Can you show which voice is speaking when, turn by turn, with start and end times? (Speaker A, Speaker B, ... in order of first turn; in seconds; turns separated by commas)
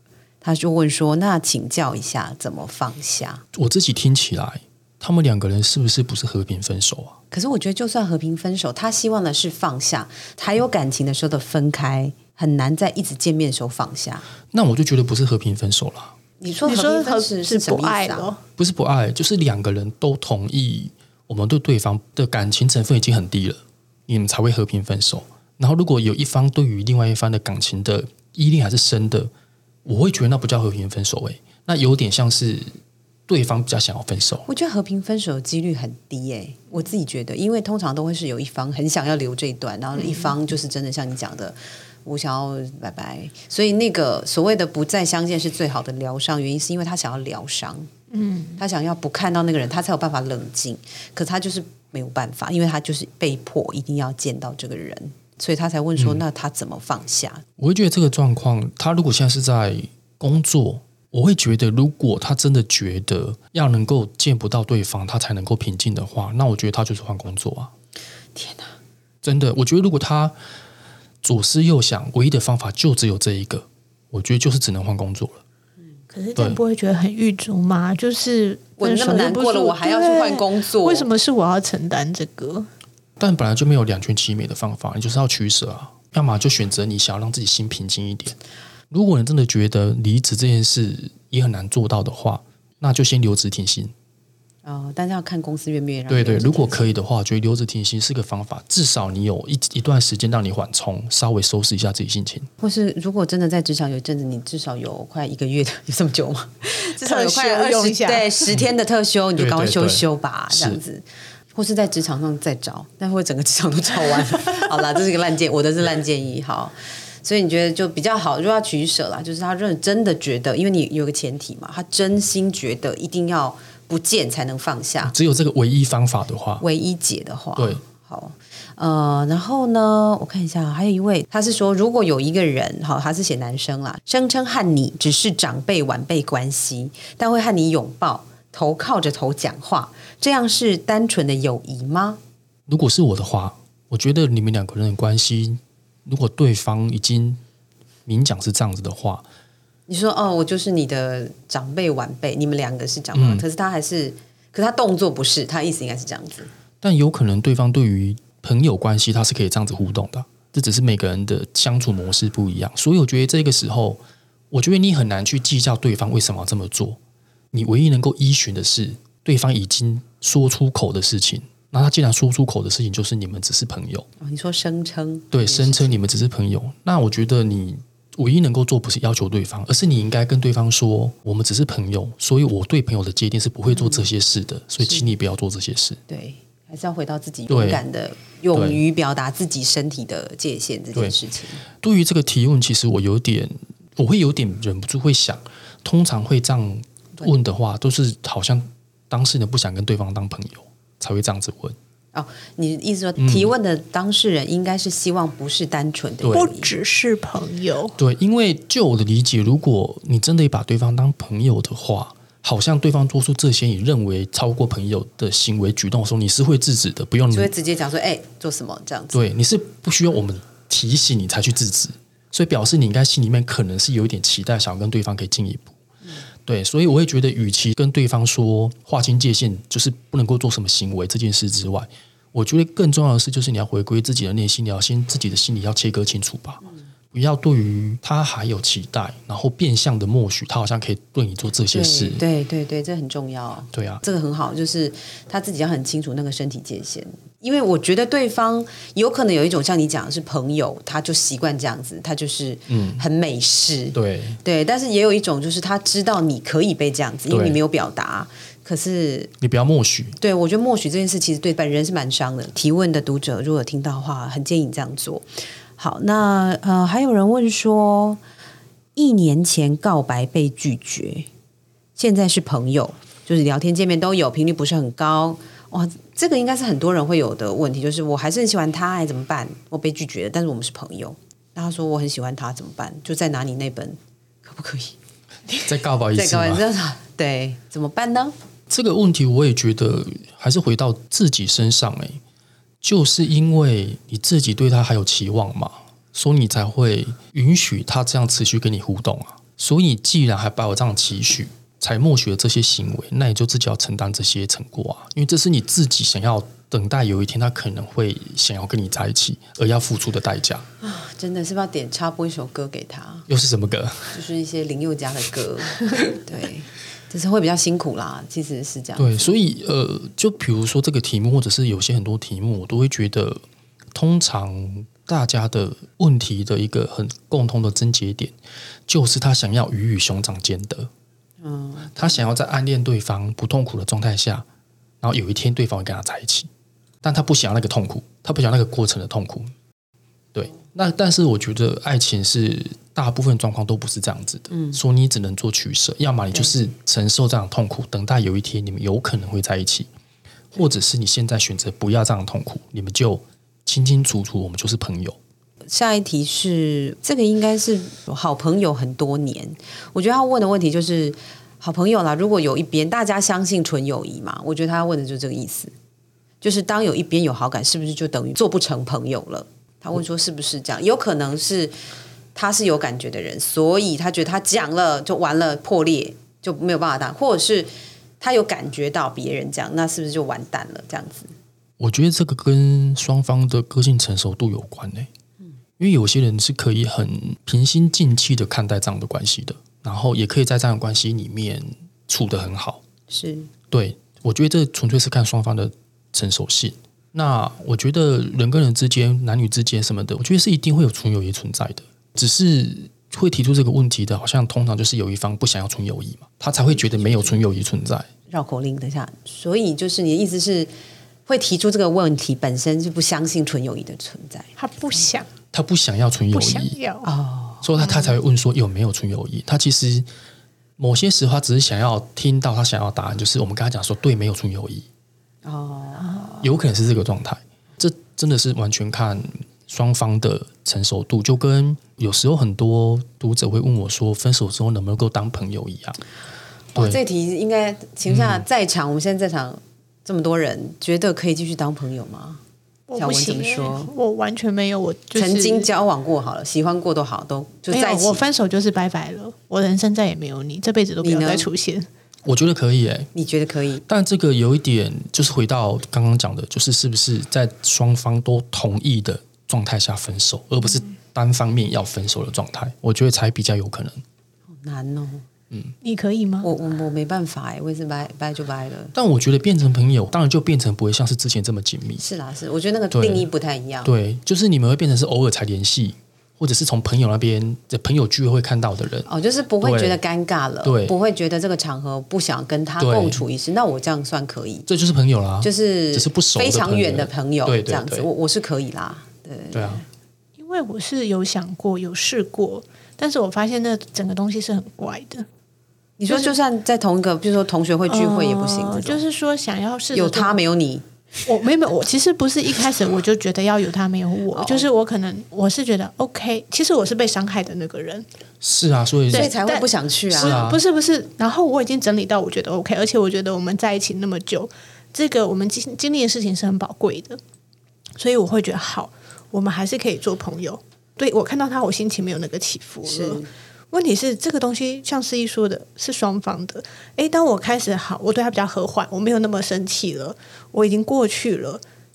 Speaker A: 0.4-3.4, Speaker B: 3.5-7.2, Speaker A: 7.3-14.2, Speaker B: 14.5-16.1, Speaker A: 16.4-18.3, Speaker C: 16.6-18.4, Speaker B: 18.6-29.3, Speaker B: 29.8-32.7, Speaker B: 33.3-34.5, Speaker A: 34.5-47.9, Speaker C: 48.1-48.6, Speaker A: 48.6-57.4, Speaker B: 56.0-56.2, Speaker B: 57.6-67.7, Speaker A: 68.3-68.7, Speaker B: 69.2-70.3, Speaker B: 71.2-75.4, Speaker C: 76.1-82.7, Speaker A: 78.8-81.1, Speaker B: 83.2-88.3, Speaker B: 88.9-93.9, Speaker A: 94.6-97.0, Speaker B: 96.1-102.5, Speaker A: 102.6-125.1, Speaker C: 107.0-108.5, Speaker B: 109.4-110.8, Speaker B: 125.0-126.6, Speaker A: 126.6-142.2, Speaker B: 142.7-147.4, Speaker B: 148.1-149.2, Speaker A: 149.9-156.5, Speaker B: 153.1-153.4, Speaker B: 156.8-164.0, Speaker B: 164.5-167.0, Speaker B: 167.5-174.1, Speaker A: 174.2-176.0, Speaker B: 175.3-186.0, Speaker A: 183.7-184.1, Speaker A: 184.8-185.1, Speaker A: 186.1-191.6, Speaker B: 187.5-187.8, Speaker B: 188.5-188.8, Speaker B: 191.8-201.8, Speaker A: 202.1-206.7, Speaker B: 203.2-203.5, Speaker C: 206.3-207.9, Speaker B: 208.0-217.5, Speaker A: 217.3-219.2, Speaker B: 219.1-225.8, Speaker B: 226.4-242.2, Speaker A: 241.7-259.3, Speaker B: 243.7-244.0, Speaker B: 252.7-253.0, Speaker B: 253.9-254.4, Speaker B: 257.3-257.6, Speaker B: 259.4-260.2, Speaker A: 260.2-265.3, Speaker A: 265.8-268.2, Speaker A: 268.9-271.3, Speaker A: 271.9-285.0, Speaker B: 285.6-286.6, Speaker A: 286.1-288.3, Speaker B: 288.7-292.2, Speaker B: 292.8-310.6, Speaker A: 310.8-313.3, Speaker B: 313.3-314.2, Speaker A: 314.1-319.3, Speaker B: 319.0-323.4, Speaker B: 323.9-328.3, Speaker B: 328.9-330.9, Speaker A: 331.4-332.2, Speaker B: 331.9-334.4, Speaker B: 335.0-336.5, Speaker B: 337.0-339.5, Speaker B: 340.3-349.9, Speaker A: 344.5-344.8, Speaker B: 350.5-355.2, Speaker A: 355.7-365.7, Speaker A: 366.4-371.7, Speaker A: 372.3-381.3, Speaker B: 381.8-385.1, Speaker B: 385.8-392.8, Speaker A: 393.1-393.5, Speaker B: 393.7-408.1, Speaker A: 406.8-407.3, Speaker A: 408.3-410.7, Speaker A: 411.3-414.5, Speaker C: 414.6-415.3, Speaker B: 415.5-416.8, Speaker C: 416.3-417.1, Speaker A: 417.0-417.7, Speaker B: 417.6-420.1, Speaker B: 420.8-424.9, Speaker A: 425.4-426.5, Speaker B: 426.4-436.0, Speaker A: 436.7-442.4, Speaker B: 436.7-437.0, Speaker B: 438.1-438.4, Speaker C: 442.9-445.7, Speaker A: 442.9-443.9, Speaker A: 445.1-448.2, Speaker C: 447.7-451.9, Speaker A: 451.0-451.5, Speaker B: 452.2-453.1, Speaker A: 453.1-453.8, Speaker B: 453.9-464.0, Speaker A: 464.5-465.2, Speaker C: 465.8-466.5, Speaker A: 466.4-468.9, Speaker B: 468.9-472.0, Speaker A: 472.0-473.9, Speaker B: 472.9-473.3, Speaker B: 473.8-479.1, Speaker A: 479.1-484.7, Speaker B: 479.6-480.0, Speaker B: 480.6-480.9, Speaker B: 482.8-483.2, Speaker B: 484.7-488.1, Speaker A: 485.4-489.8, Speaker B: 489.5-489.8, Speaker C: 490.4-495.3, Speaker A: 496.0-499.0, Speaker C: 496.1-496.3, Speaker C: 497.9-500.4, Speaker A: 499.9-500.9, Speaker C: 501.2-508.1, Speaker A: 504.3-504.7, Speaker B: 508.4-509.3, Speaker A: 509.1-510.4, Speaker C: 509.1-517.2, Speaker B: 510.1-510.6, Speaker C: 518.0-531.6, Speaker A: 522.8-523.3